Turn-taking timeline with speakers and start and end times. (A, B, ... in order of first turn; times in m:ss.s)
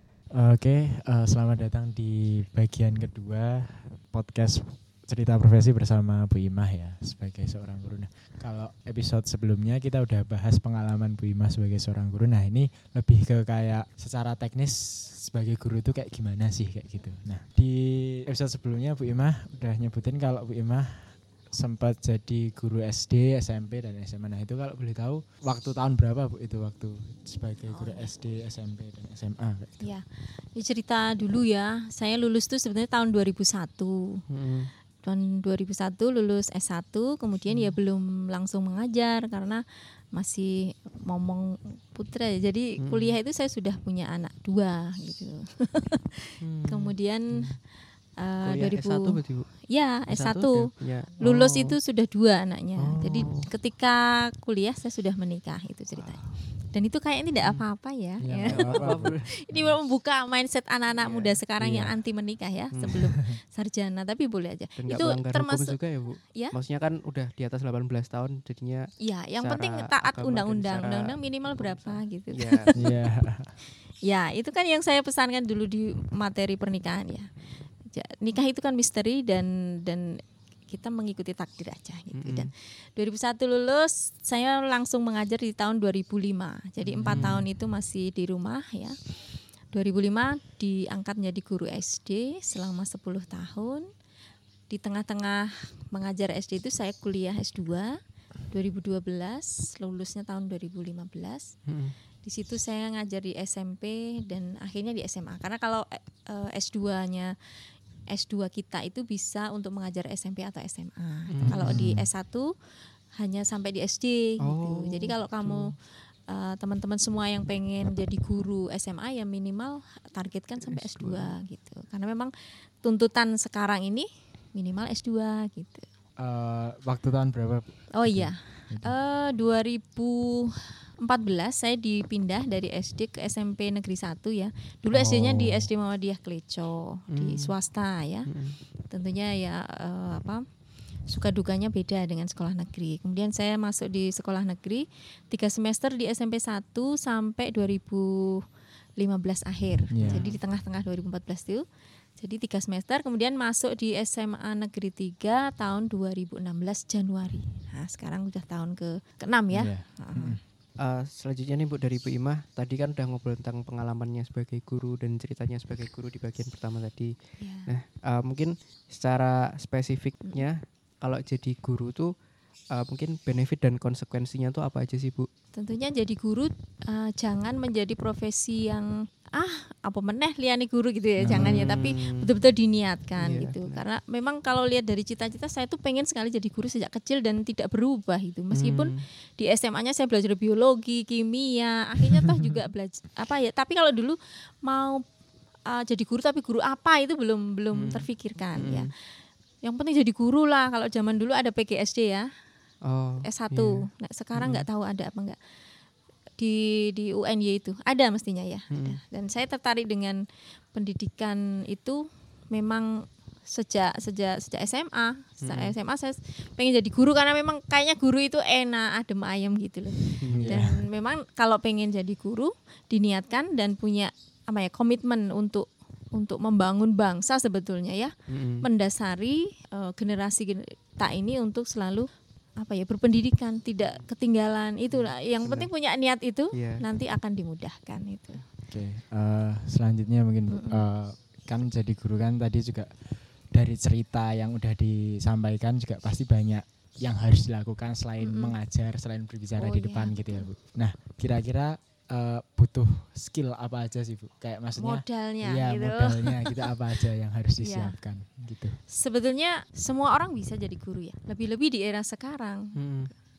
0:00.3-0:29.8 A
0:27.7-0:28.1 B
0:30.6-0:34.2 B
0:34.3-0:34.7 C
0:35.0-0:39.6 B
0:37.5-0:37.8 C
0:40.2-0:47.5 B
0:42.8-0:43.2 C
0:46.4-0:47.6 C
0:48.2-0:50.7 B
0:48.4-0:49.5 C
0:50.1-0:51.8 C
0:51.2-1:05.8 B
0:52.8-0:53.5 C
0:58.2-0:59.7 A
0:58.5-0:59.3 C
1:01.0-1:01.4 C
1:01.6-1:01.9 A
1:02.7-1:03.0 C
1:04.8-1:08.9 C
1:09.0-1:12.7 B
1:09.4-1:12.7 C
1:12.8-1:13.5 A
1:14.1-1:17.3 B
1:17.9-1:20.0 B
1:20.7-1:28.9 B
1:22.1-1:22.5 C
1:27.0-1:27.4 A
1:27.0-1:27.4 C
1:29.7-1:33.8 B
1:34.7-1:37.9 B
1:38.5-1:41.5 B
1:41.7-1:41.9 C
1:42.2-1:47.3 B
1:48.1-1:52.5 B
1:51.3-1:51.7 C
1:51.5-1:52.1 A
1:53.2-1:55.7 B
1:54.4-1:55.7 C
1:56.3-2:02.3 B
2:00.6-2:01.3 C
2:02.8-2:05.8 B
2:06.2-2:08.9 A
2:07.9-2:18.3 B
2:14.9-2:15.7 A
2:17.1-2:17.5 C
2:18.3-2:18.6 C
2:18.9-2:20.4 B
2:21.1-2:28.4 B
2:29.0-2:31.6 B
2:29.9-2:30.2 A
2:30.0-2:30.4 C
2:32.2-2:40.4 B
2:39.5-2:40.4 A
2:40.8-2:47.1 C
2:47.4-2:47.7 B
2:47.7-2:52.1 C
2:52.7-2:55.3 C
2:55.6-3:15.0 B
3:01.2-3:01.8 A
3:01.3-3:02.2 C
3:03.2-3:03.8 C
3:08.5-3:09.0 C
3:12.1-3:12.5 C
3:15.7-3:18.9 B
3:17.8-3:18.1 C
3:18.6-3:18.9 C
3:19.6-3:22.3 B
3:22.9-3:23.8 C
3:23.2-3:25.4 B
3:24.4-3:24.7 C
3:26.4-3:30.2 B
3:28.7-3:29.0 C
3:30.7-3:32.0 B
3:32.5-3:32.9 B
3:33.5-3:52.1 B
3:35.4-3:35.7 C
3:40.2-3:40.6 C
3:40.3-3:40.8 A
3:48.3-3:48.6 C
3:52.6-3:58.4 B
3:54.9-3:55.7 C
3:56.5-3:56.8 C
3:58.7-4:02.9 A
4:00.5-4:00.8 B
4:03.5-4:18.8 A
4:08.2-4:08.6 B
4:09.6-4:10.5 B
4:14.8-4:16.5 B
4:17.6-4:18.0 B
4:18.9-4:22.8 B
4:22.8-4:23.1 C